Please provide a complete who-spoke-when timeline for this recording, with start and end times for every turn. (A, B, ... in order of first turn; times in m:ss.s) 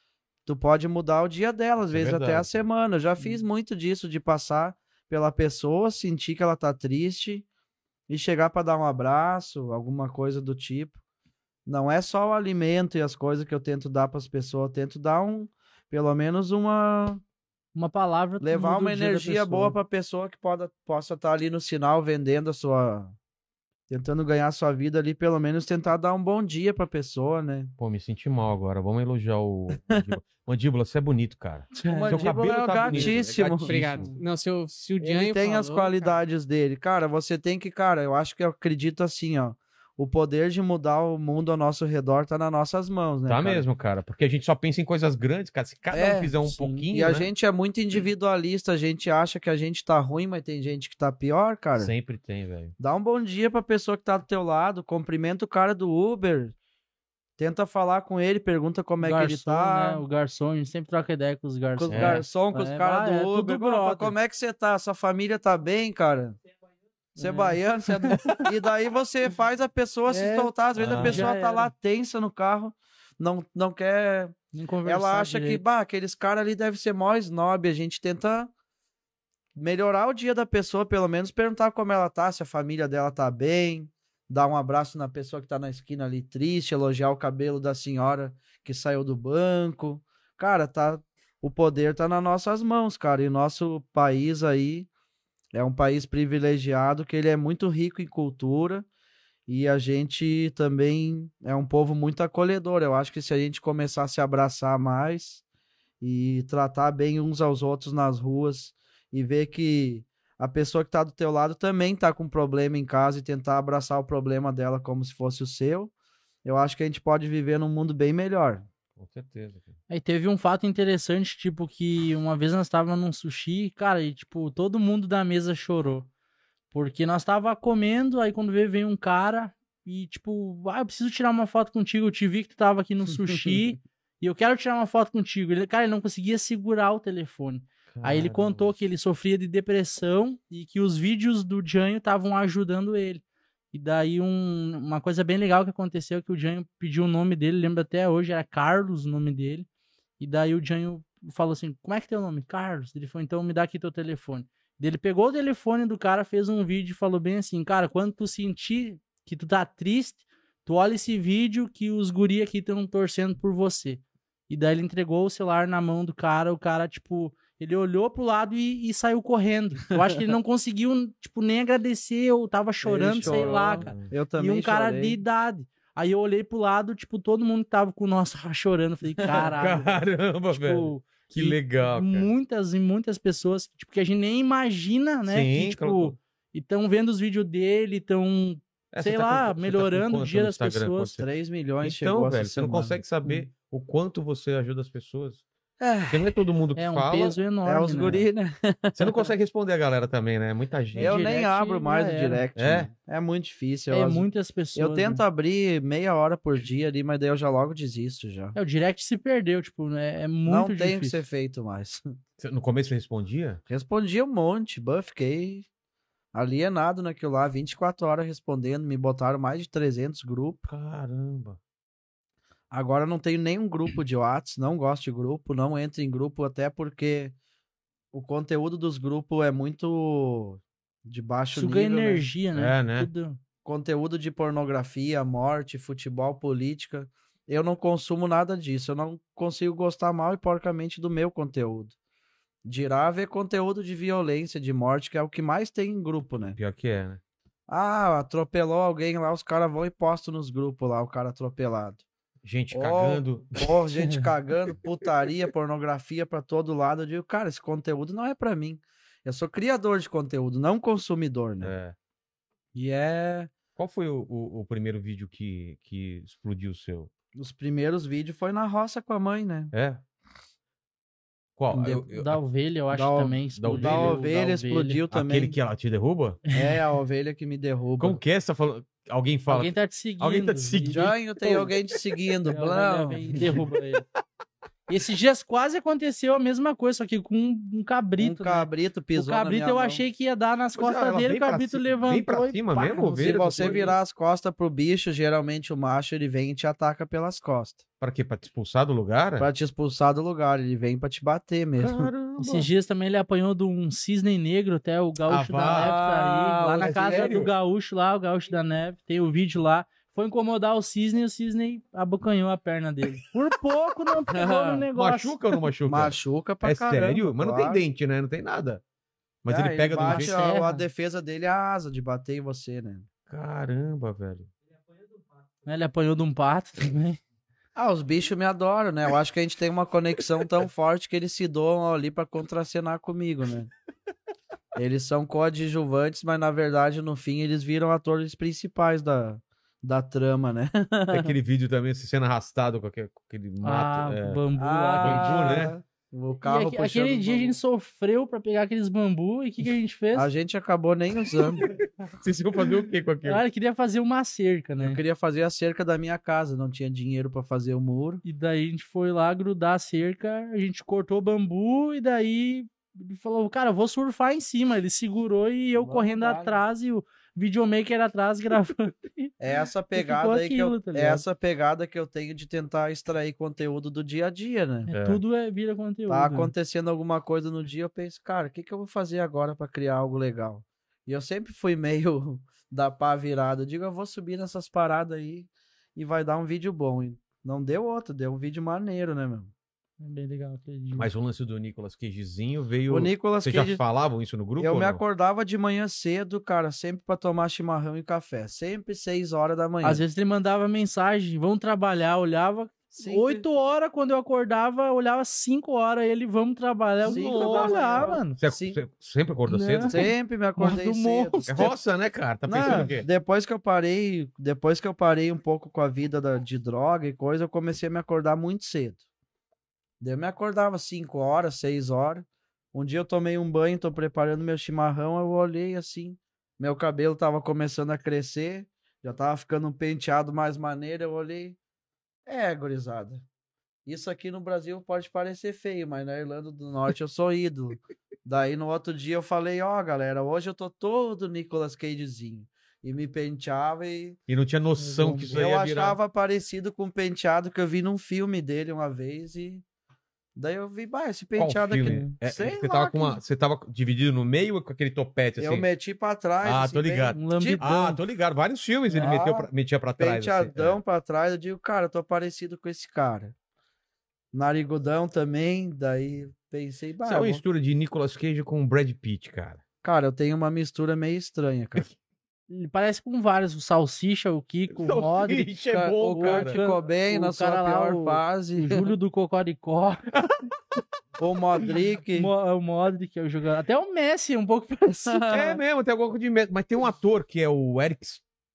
0:00.5-0:07.5 A
0:01.8-0:02.6 B
0:08.1-0:11.0 A
0:11.7-0:17.2 A
0:17.8-0:19.8 C
0:18.4-0:23.2 A
0:23.9-0:27.7 A
0:27.8-0:34.2 B
0:31.8-0:34.1 A
0:32.8-0:36.0 D
0:35.0-0:43.6 A
0:43.3-0:47.3 B
0:45.9-0:46.3 A
0:46.4-0:46.9 C
0:46.9-0:51.9 A
0:51.8-0:52.7 B
0:52.8-0:56.6 A
0:57.4-1:00.0 A
0:59.0-1:04.1 C
1:01.8-1:06.4 A
1:01.9-1:02.2 B
1:07.2-1:08.5 C
1:07.2-1:18.5 A
1:10.1-1:11.7 C
1:10.8-1:11.3 B
1:14.5-1:15.6 C
1:19.6-1:34.9 A
1:35.5-1:38.9 A
1:39.5-1:45.4 A
1:46.0-1:55.9 A
1:56.4-1:58.7 A
1:59.0-1:59.7 B
1:59.9-2:06.1 C
2:06.7-2:29.7 C
2:13.3-2:13.6 A
2:17.9-2:18.7 B
2:30.2-3:11.2 C
2:52.8-2:55.2 A
2:53.2-2:54.1 B
2:59.3-3:02.3 B
3:05.3-3:06.2 B
3:08.9-3:11.3 B
3:11.2-3:13.0 A
3:11.8-3:15.4 B
3:15.8-3:16.4 A
3:16.1-3:17.4 B
3:16.8-3:18.2 C
3:17.6-3:19.3 A
3:19.0-3:21.2 B
3:21.0-3:22.4 C
3:21.0-3:28.6 A
3:22.6-3:22.9 B
3:23.9-3:25.2 C
3:28.6-3:31.2 C
3:30.5-3:32.0 A
3:32.4-3:33.6 B
3:33.7-3:35.7 A
3:36.3-3:40.7 A
3:40.7-3:41.6 B
3:42.7-3:47.4 A
3:48.1-3:52.3 A
3:51.5-3:53.4 C
3:52.5-3:53.1 B
3:53.6-4:02.0 A
4:02.7-4:06.6 A
4:06.6-4:07.2 B
4:07.7-4:12.0 A
4:12.4-4:13.7 B
4:12.7-4:21.8 A
4:21.6-4:22.0 B
4:22.7-4:23.5 A
4:23.8-4:27.1 B
4:27.4-4:29.7 A
4:29.7-4:30.0 B
4:31.6-4:32.4 B
4:31.7-4:32.1 A
4:32.1-4:35.0 C
4:32.9-4:35.6 A
4:33.6-4:34.2 B
4:35.1-4:36.4 B
4:36.5-4:38.2 A
4:38.0-4:41.1 B
4:39.5-4:41.7 C
4:40.9-4:43.2 A
4:42.5-4:44.0 C
4:44.9-4:53.9 C
4:48.2-4:50.0 A
4:50.8-4:53.9 B
4:53.2-4:57.8 A
4:58.0-4:59.5 B
4:59.4-5:02.1 A
5:01.8-5:02.7 B
5:02.4-5:15.4 C
5:05.3-5:06.0 B
5:05.6-5:07.5 A
5:06.8-5:07.5 B
5:14.3-5:14.9 A
5:15.0-5:18.8 B
5:15.9-5:17.8 A
5:19.4-5:20.4 B
5:19.5-5:23.1 A
5:20.0-5:20.9 C
5:23.3-5:24.5 B
5:25.7-5:27.2 C
5:27.8-5:33.7 A
5:34.8-5:41.3 A
5:41.1-5:44.4 B
5:43.6-5:45.7 C
5:44.6-5:47.6 A
5:45.0-5:45.7 B
5:46.4-5:50.3 C
5:50.1-5:51.7 A
5:51.6-5:53.4 B
5:53.2-5:55.0 C
5:54.8-5:58.2 A
5:58.2-6:09.3 C
6:05.8-6:06.6 A
6:09.4-6:14.9 A
6:09.9-6:11.2 C
6:14.9-6:16.5 C
6:14.9-6:15.2 B
6:16.1-6:29.5 A
6:30.0-6:31.1 C
6:31.0-6:35.0 B
6:32.9-6:33.8 A
6:34.6-6:40.0 A
6:39.8-6:48.4 C
6:43.0-6:43.4 A
6:47.0-6:50.0 B
6:47.0-6:48.8 A
6:49.5-6:51.7 C
6:49.8-6:51.8 A
6:51.5-6:53.1 B
6:52.5-6:59.0 A
6:52.6-6:52.9 C
7:00.0-7:11.6 A
7:12.3-7:13.3 A
7:13.9-7:24.2 A
7:24.3-7:26.0 B
7:24.8-7:25.4 C
7:25.3-7:29.6 A
7:30.4-7:33.2 A
7:31.4-7:35.7 B
7:31.8-7:32.1 C
7:35.4-7:37.8 A
7:36.4-7:40.8 B
7:37.1-7:38.0 C
7:38.9-7:39.2 C
7:39.0-7:43.3 A
7:44.3-7:47.4 A
7:47.0-7:49.6 B
7:49.8-7:51.9 A
7:52.5-7:55.5 C
7:54.7-7:56.6 B
7:55.7-7:58.9 A
7:56.1-8:00.0 C
8:01.2-8:02.3 A
8:02.2-8:05.3 C
8:05.0-8:05.6 A
8:05.3-8:08.2 B